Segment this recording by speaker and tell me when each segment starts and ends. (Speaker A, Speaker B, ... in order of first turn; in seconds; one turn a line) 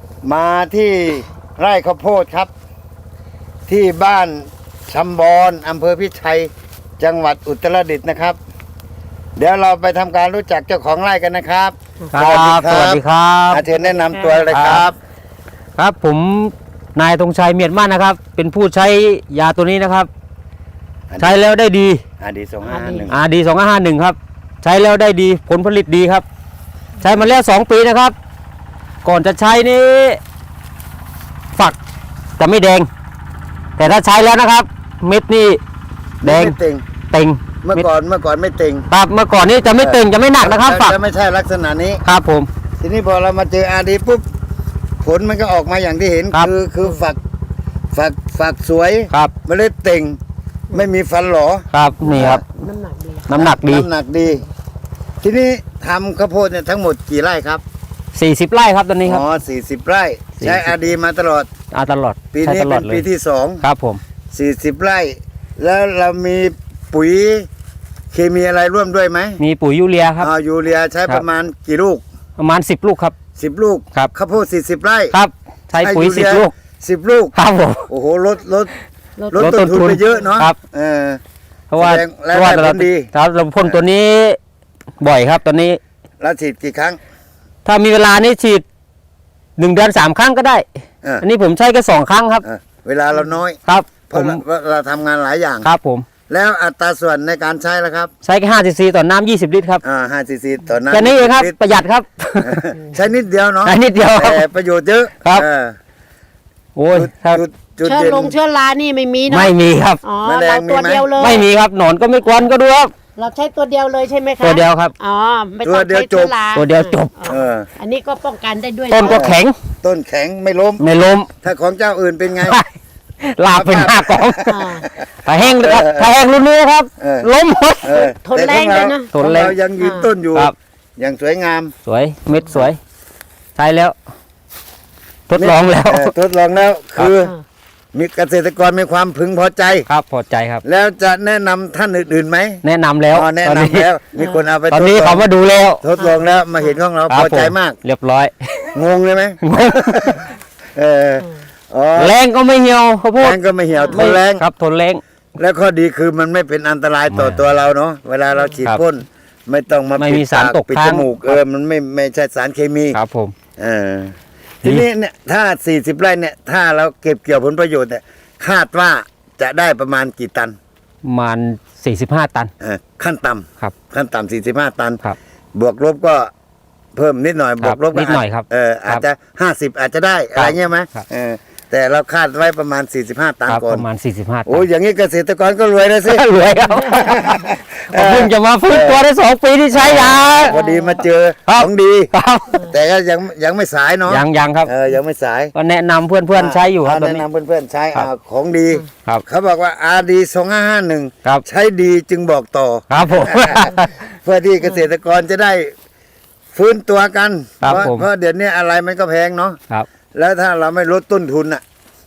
Speaker A: 0.2-2.5
Speaker A: 3.7-8.4
Speaker A: 9.4-14.9
Speaker B: 12.1-13.6
Speaker C: 13.8-14.4
Speaker B: 14.5-14.8
Speaker B: 15.8-20.1
Speaker A: 21.1-21.5
Speaker B: 21.2-22.0
Speaker A: 22.2-23.2
Speaker C: 22.6-23.1
Speaker B: 23.1-26.2
Speaker B: 27.0-28.1
Speaker B: 29.0-30.2
Speaker B: 32.4-32.9
Speaker B: 33.8-35.6
Speaker A: 36.2-36.8
Speaker B: 36.2-36.5
Speaker B: 37.1-37.9
Speaker A: 37.6-38.9
Speaker B: 38.9-40.9
Speaker A: 39.8-42.0
Speaker B: 42.0-42.5
Speaker A: 42.8-44.2
Speaker A: 45.0-47.2
Speaker A: 47.9-50.2
Speaker A: 50.7-52.4
Speaker B: 51.7-52.4
Speaker C: 52.0-53.3
Speaker B: 53.3-53.9
Speaker A: 53.3-54.4
Speaker A: 55.2-57.6
Speaker B: 58.1-59.2
Speaker A: 59.0-61.5
Speaker B: 60.4-60.7
Speaker B: 61.7-63.0
Speaker A: 62.3-63.6
Speaker B: 63.6-64.0
Speaker A: 64.3-67.5
Speaker A: 68.1-69.4
Speaker B: 69.4-70.3
Speaker A: 70.2-72.0
Speaker B: 72.4-73.1
Speaker A: 73.3-75.1
Speaker B: 75.1-76.5
Speaker A: 75.8-77.3
Speaker B: 77.3-77.9
Speaker A: 77.9-78.7
Speaker C: 79.2-80.2
Speaker A: 79.3-81.2
Speaker B: 79.3-80.5
Speaker B: 81.7-84.4
Speaker A: 81.8-83.1
Speaker B: 85.0-85.8
Speaker A: 86.2-87.0
Speaker B: 87.6-88.6
Speaker B: 89.6-90.6
Speaker B: 91.2-92.4
Speaker A: 92.4-95.7
Speaker B: 93.7-94.4
Speaker B: 95.6-96.0
Speaker A: 96.3-98.1
Speaker B: 98.2-99.8
Speaker A: 99.8-101.6
Speaker B: 100.9-102.7
Speaker A: 102.4-105.8
Speaker B: 103.6-104.4
Speaker B: 106.8-107.4
Speaker A: 106.9-108.3
Speaker C: 107.8-111.5
Speaker B: 109.3-110.0
Speaker A: 110.2-111.1
Speaker B: 111.2-112.9
Speaker C: 113.2-119.3
Speaker B: 114.4-114.9
Speaker A: 115.6-116.3
Speaker B: 116.5-117.4
Speaker A: 117.3-117.7
Speaker B: 118.9-119.5
Speaker A: 119.0-120.8
Speaker B: 120.8-121.3
Speaker A: 121.4-122.6
Speaker B: 122.4-122.7
Speaker B: 123.2-124.6
Speaker A: 123.5-124.5
Speaker C: 124.5-124.9
Speaker B: 125.2-127.9
Speaker A: 125.5-126.1
Speaker A: 127.0-127.3
Speaker A: 127.8-131.7
Speaker C: 127.9-129.1
Speaker B: 129.1-129.6
Speaker C: 129.8-130.1
Speaker B: 131.8-132.8
Speaker B: 133.6-133.9
Speaker B: 135.3-136.1
Speaker A: 135.3-137.3
Speaker A: 137.9-139.9
Speaker B: 139.9-140.6
Speaker A: 140.6-145.3
Speaker B: 142.6-143.9
Speaker C: 144.2-144.4
Speaker B: 144.7-145.8
Speaker A: 145.8-147.8
Speaker C: 146.0-146.8
Speaker B: 147.1-148.7
Speaker A: 148.7-152.2
Speaker B: 149.4-150.3
Speaker B: 151.9-153.4
Speaker A: 153.2-154.4
Speaker C: 153.7-154.1
Speaker B: 153.9-155.0
Speaker A: 155.4-163.0
Speaker B: 157.1-157.4
Speaker B: 160.0-161.4
Speaker B: 162.9-163.3
Speaker A: 163.6-170.5
Speaker B: 171.0-172.5
Speaker A: 172.6-175.0
Speaker A: 175.6-176.3
Speaker A: 176.9-183.8
Speaker B: 177.6-179.0
Speaker B: 180.3-181.0
Speaker B: 183.5-184.6
Speaker A: 184.5-186.2
Speaker B: 186.0-190.5
Speaker A: 186.8-189.0
Speaker A: 189.7-192.1
Speaker C: 190.5-191.0
Speaker B: 191.5-192.7
Speaker A: 192.7-195.5
Speaker B: 194.1-194.7
Speaker B: 195.5-197.2
Speaker A: 196.3-205.7
Speaker B: 202.9-203.9
Speaker A: 206.5-209.6
Speaker B: 207.6-208.1
Speaker A: 210.1-211.6